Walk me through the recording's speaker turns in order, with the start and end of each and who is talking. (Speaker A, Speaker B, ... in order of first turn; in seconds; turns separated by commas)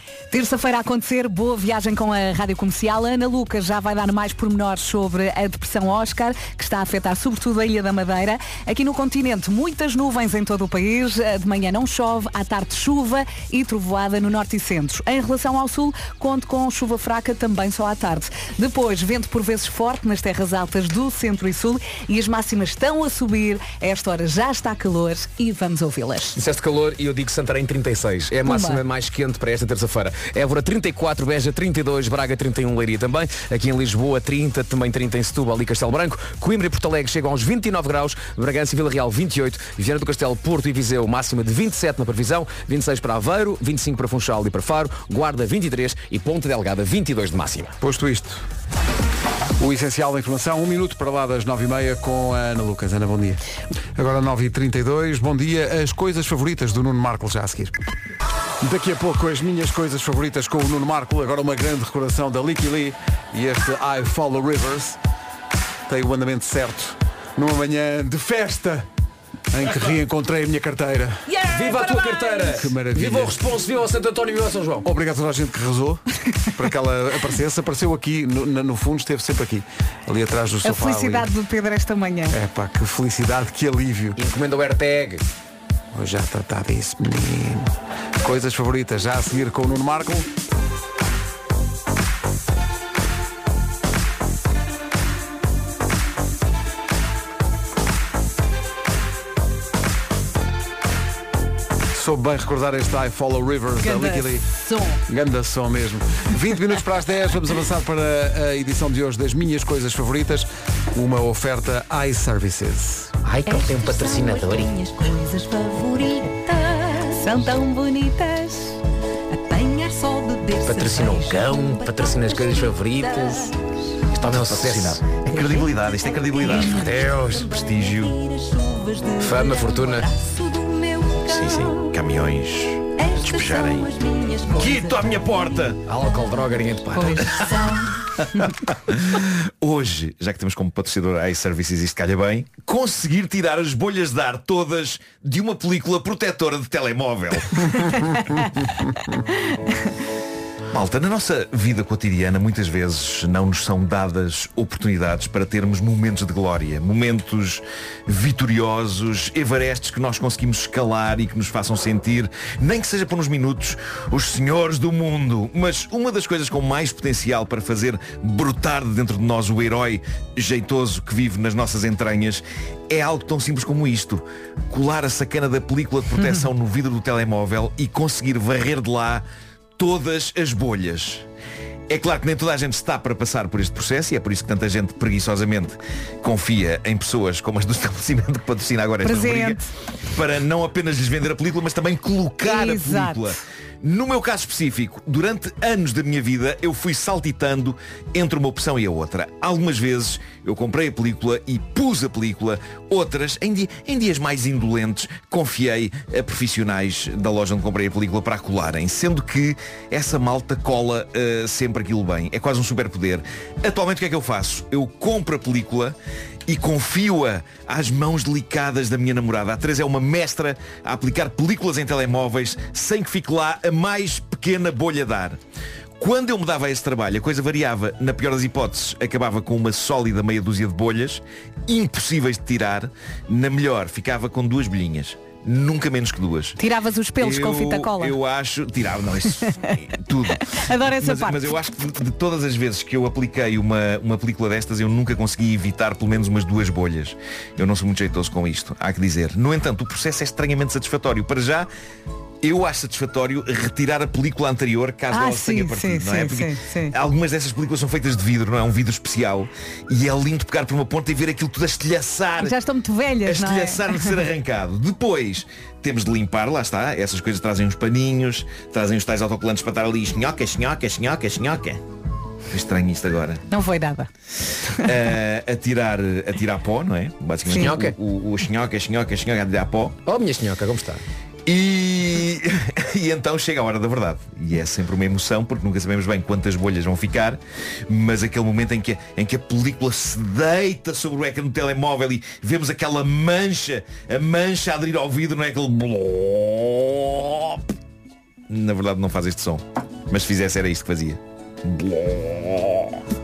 Speaker A: 0.3-26.4, Speaker B: 26.4-47.8, Speaker A: 28.4-28.8, Speaker C: 47.8-48.5, Speaker C: 49.6-53.4, Speaker C: 54.0-57.7, Speaker C: 58.6-65.0, Speaker C: 65.9-68.9, Speaker C: 69.5-71.3, Speaker A: 71.3-72.5, Speaker B: 71.5-74.9, Speaker C: 72.5-73.4, Speaker C: 74.8-81.3, Speaker A: 80.6-82.3, Speaker C: 82.3-84.2, Speaker B: 84.2-85.2, Speaker C: 85.9-87.7, Speaker C: 88.2-90.3, Speaker C: 101.9-104.5, Speaker A: 103.8-105.0, Speaker C: 105.1-113.1, Speaker B: 113.2-114.7, Speaker D: 113.5-117.6, Speaker A: 117.2-118.8, Speaker D: 119.3-123.6, Speaker B: 120.7-123.5, Speaker B: 124.1-125.2, Speaker E: 124.3-128.2, Speaker D: 125.1-132.0, Speaker B: 126.7-127.2, Speaker B: 129.2-130.1, Speaker E: 131.3-133.9, Speaker D: 132.9-136.4, Speaker E: 134.5-135.8, Speaker B: 135.9-137.5, Speaker A: 136.9-137.3, Speaker D: 137.2-137.8, Speaker E: 138.7-148.0, Speaker E: 150.7-179.2, Speaker E: 179.8-181.2, Speaker E: 181.9-216.0, Speaker A: 189.0-189.7, Speaker A: 192.4-193.4, Speaker E: 216.5-225.4, Speaker E: 226.0-236.6, Speaker A: 236.6-238.2, Speaker E: 237.2-251.7, Speaker A: 239.4-239.8, Speaker A: 240.4-241.5, Speaker E: 252.4-262.6, Speaker A: 255.1-256.9, Speaker A: 262.4-264.2, Speaker E: 263.2-271.8, Speaker E: 272.5-273.4, Speaker A: 273.5-274.1, Speaker E: 274.8-280.0, Speaker B: 277.5-278.0, Speaker B: 280.1-281.0, Speaker E: 281.5-297.6, Speaker E: 298.5-303.0